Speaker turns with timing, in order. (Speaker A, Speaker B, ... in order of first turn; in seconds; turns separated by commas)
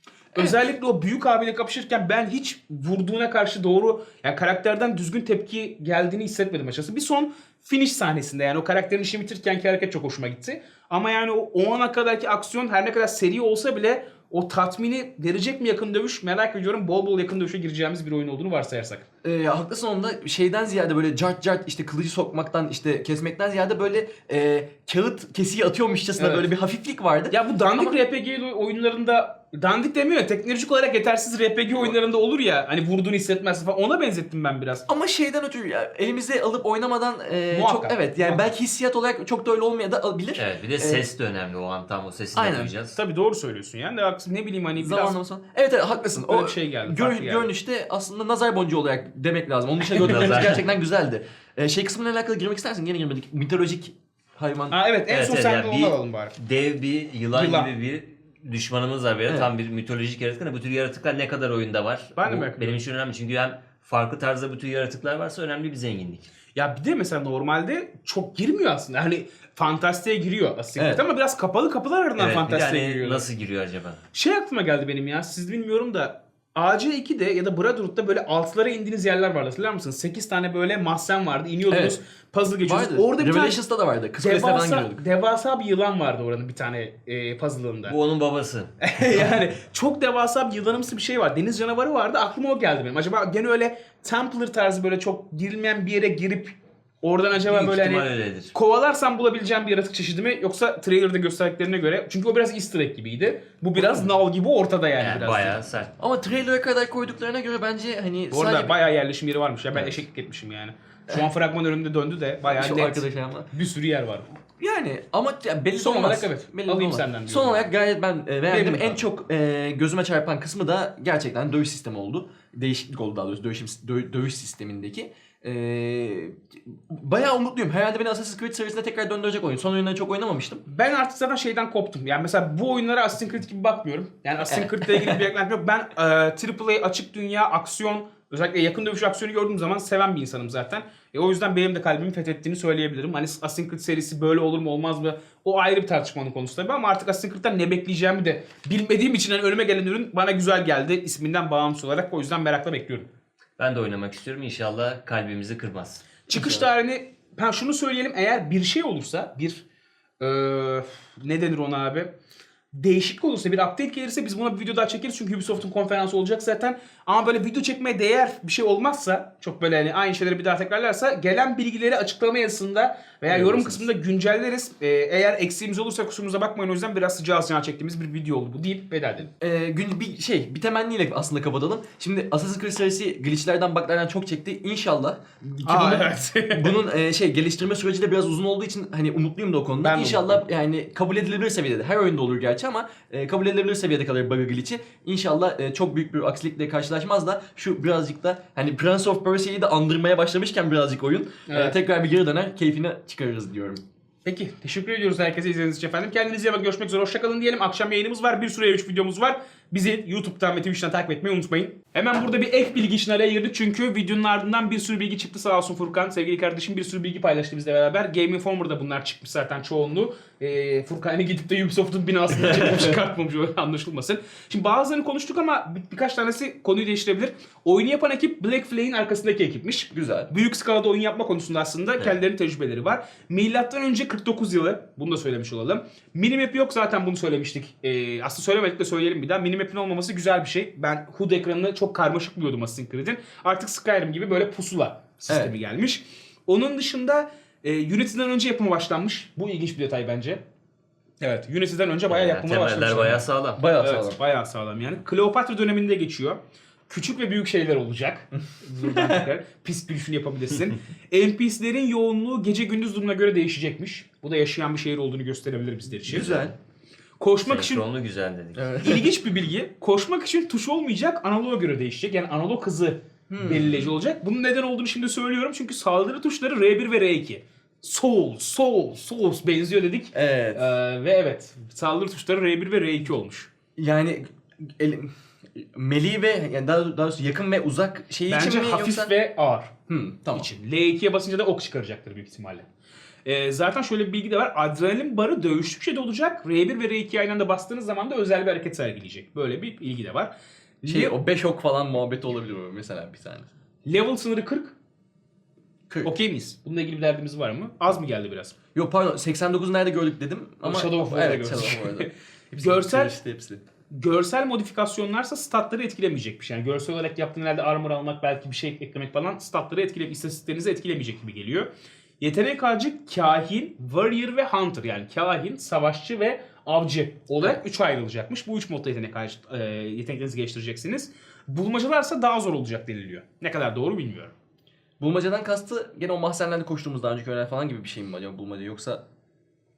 Speaker A: 0.3-19.0, Speaker B: 19.2-28.0, Speaker A: 26.2-26.5, Speaker A: 27.3-34.9, Speaker B: 34.9-41.0, Speaker A: 37.5-38.5, Speaker C: 40.4-43.0, Speaker B: 42.4-42.7, Speaker A: 42.9-45.2, Speaker B: 44.8-54.8, Speaker A: 46.1-47.5, Speaker C: 49.9-50.6, Speaker A: 54.7-56.3, Speaker C: 55.1-66.3, Speaker A: 57.3-57.7, Speaker A: 62.1-62.8, Speaker A: 66.5-73.3, Speaker B: 70.8-71.0, Speaker C: 72.2-74.0, Speaker A: 74.1-83.6, Speaker B: 81.7-82.0, Speaker B: 82.6-85.0, Speaker A: 84.2-88.0, Speaker C: 87.9-88.7, Speaker A: 88.8-105.6, Speaker C: 97.3-98.5, Speaker C: 103.8-104.0, Speaker C: 105.0-105.9, Speaker B: 106.0-108.8, Speaker A: 108.3-114.2, Speaker B: 112.4-113.5, Speaker B: 114.6-130.6, Speaker A: 115.7-117.7, Speaker A: 118.5-119.0, Speaker A: 130.7-153.1, Speaker B: 134.4-135.2, Speaker C: 153.6-156.0, Speaker A: 156.3-159.6, Speaker B: 156.3-156.6, Speaker A: 160.2-162.1, Speaker A: 162.7-179.3, Speaker B: 173.3-173.9, Speaker B: 179.4-203.8, Speaker A: 185.6-186.7, Speaker A: 189.8-190.5, Speaker A: 201.5-201.8, Speaker A: 204.2-250.4, Speaker B: 229.9-230.3, Speaker A: 251.2-253.2, Speaker C: 252.1-253.6, Speaker B: 253.6-254.2, Speaker A: 253.8-266.5, Speaker B: 258.8-259.2, Speaker B: 266.1-266.5, Speaker A: 267.2-267.8, Speaker C: 267.4-268.7, Speaker B: 268.6-269.1, Speaker A: 268.8-283.5, Speaker B: 273.3-273.8, Speaker B: 280.1-280.7, Speaker B: 283.8-284.2, Speaker B: 284.8-289.1, Speaker A: 288.3-289.7, Speaker B: 289.9-290.5, Speaker A: 290.3-292.6, Speaker A: 293.2-300.3, Speaker B: 300.8-303.5, Speaker A: 300.8-301.1, Speaker A: 303.9-304.7, Speaker A: 306.0-308.5, Speaker B: 308.7-313.6, Speaker A: 310.6-313.1, Speaker A: 313.9-321.7, Speaker A: 322.2-334.3, Speaker B: 335.0-339.0